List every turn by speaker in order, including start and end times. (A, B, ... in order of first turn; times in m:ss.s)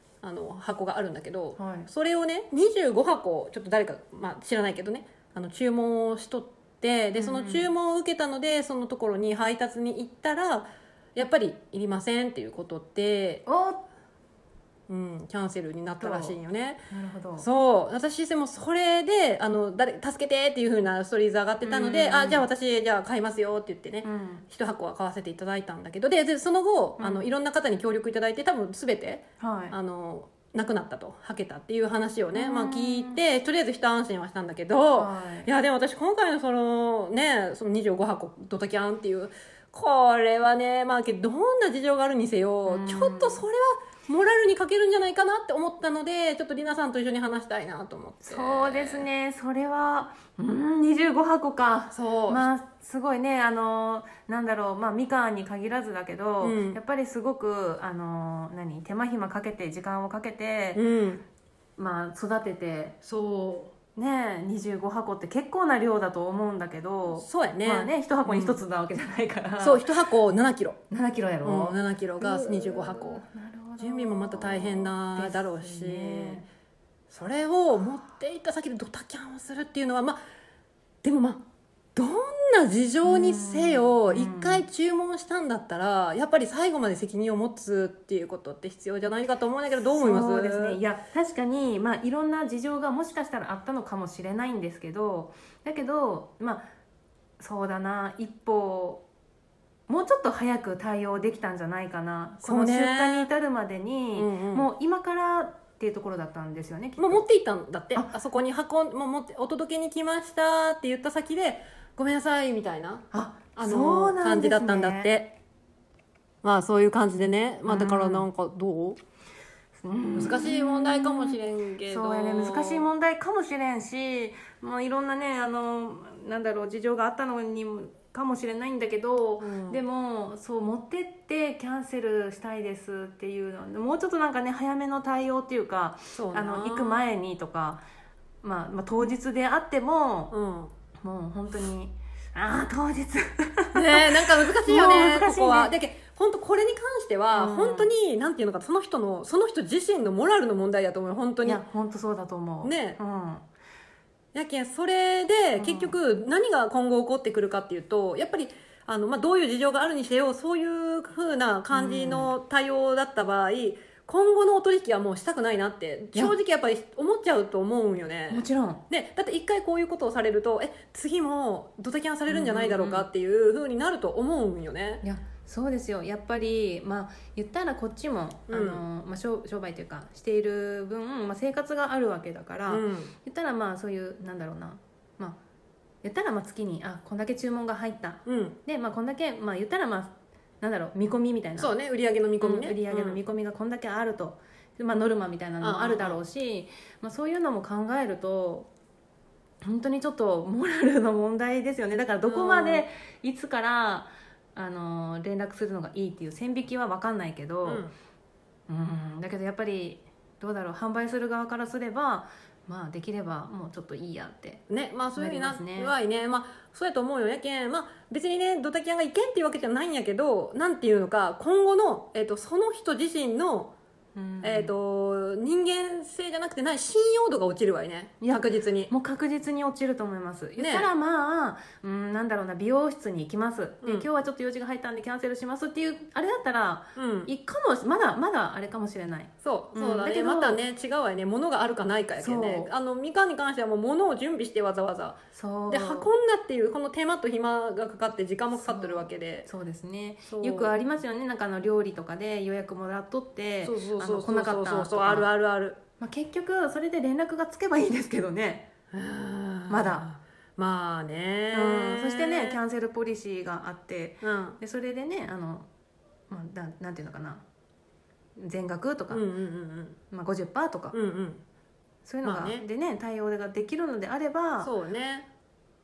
0:00.2-0:13.4 A
0:01.6-0:01.9 B
0:07.1-0:07.7 B
0:13.4-0:13.8 B
0:14.9-0:16.8 A
0:16.0-0:16.4 B
0:16.9-0:17.4 B
0:17.4-0:49.1 A
0:21.6-0:22.4 B
0:24.0-0:24.5 B
0:27.0-0:27.3 B
0:29.4-0:29.7 B
0:32.3-0:33.2 B
0:34.9-0:35.5 B
0:42.7-0:43.4 B
0:48.2-1:00.8 B
0:51.9-0:52.5 A
0:56.4-0:56.8 A
1:00.7-1:01.2 A
1:01.8-1:03.0 B
1:03.0-1:03.7 A
1:03.9-1:09.9 B
1:07.1-1:08.6 A
1:09.6-1:10.8 A
1:10.9-1:16.4 B
1:11.4-1:13.2 A
1:13.8-1:16.4 A
1:17.1-1:20.2 A
1:21.0-1:21.4 A
1:21.9-1:30.8 A
1:23.0-1:24.6 B
1:29.9-1:36.6 B
1:37.4-1:39.0 B
1:39.9-1:47.2 B
1:42.4-1:43.3 A
1:44.2-1:44.7 A
1:47.0-1:55.4 A
1:53.1-1:55.1 B
1:56.4-1:59.0 A
1:57.6-1:58.3 B
1:59.8-2:17.8 B
2:00.2-2:02.8 A
2:09.4-2:09.8 A
2:16.1-2:17.0 A
2:18.4-2:20.3 B
2:20.3-2:20.7 A
2:21.0-2:25.7 B
2:23.7-2:31.6 A
2:27.3-2:27.9 B
2:31.4-2:33.4 B
2:32.6-2:33.0 A
2:34.3-2:55.0 A
2:35.6-2:35.9 B
2:41.7-2:42.3 B
2:48.3-2:48.8 B
2:52.3-2:53.1 B
2:55.0-3:05.4 B
2:58.5-2:58.8 A
3:02.7-3:03.1 A
3:06.0-3:11.8 B
3:08.2-3:08.6 A
3:11.6-3:13.2 A
3:12.4-3:18.7 B
3:15.6-3:16.2 A
3:19.6-3:27.8 B
3:22.2-3:22.8 A
3:27.6-3:27.9 A
3:28.7-3:34.6 B
3:34.7-3:43.7 A
3:35.2-3:35.9 B
3:44.1-3:44.7 B
3:44.4-3:48.9 A
3:48.2-4:00.6 B
3:50.6-3:50.9 A
3:57.0-3:57.3 A
3:59.4-4:09.5 A
4:02.2-4:02.7 B
4:05.3-4:06.1 B
4:08.6-4:15.3 B
4:10.3-4:10.7 A
4:13.6-4:15.8 A
4:16.0-4:18.7 B
4:18.9-4:22.6 A
4:19.7-4:20.1 B
4:21.5-4:25.7 B
4:24.2-4:24.6 A
4:26.3-4:27.4 B
4:28.4-4:29.2 B
4:29.1-4:30.0 A
4:30.1-4:30.9 B
4:30.9-4:31.4 A
4:32.0-4:34.7 B
4:32.2-4:32.6 A
4:34.6-4:35.3 A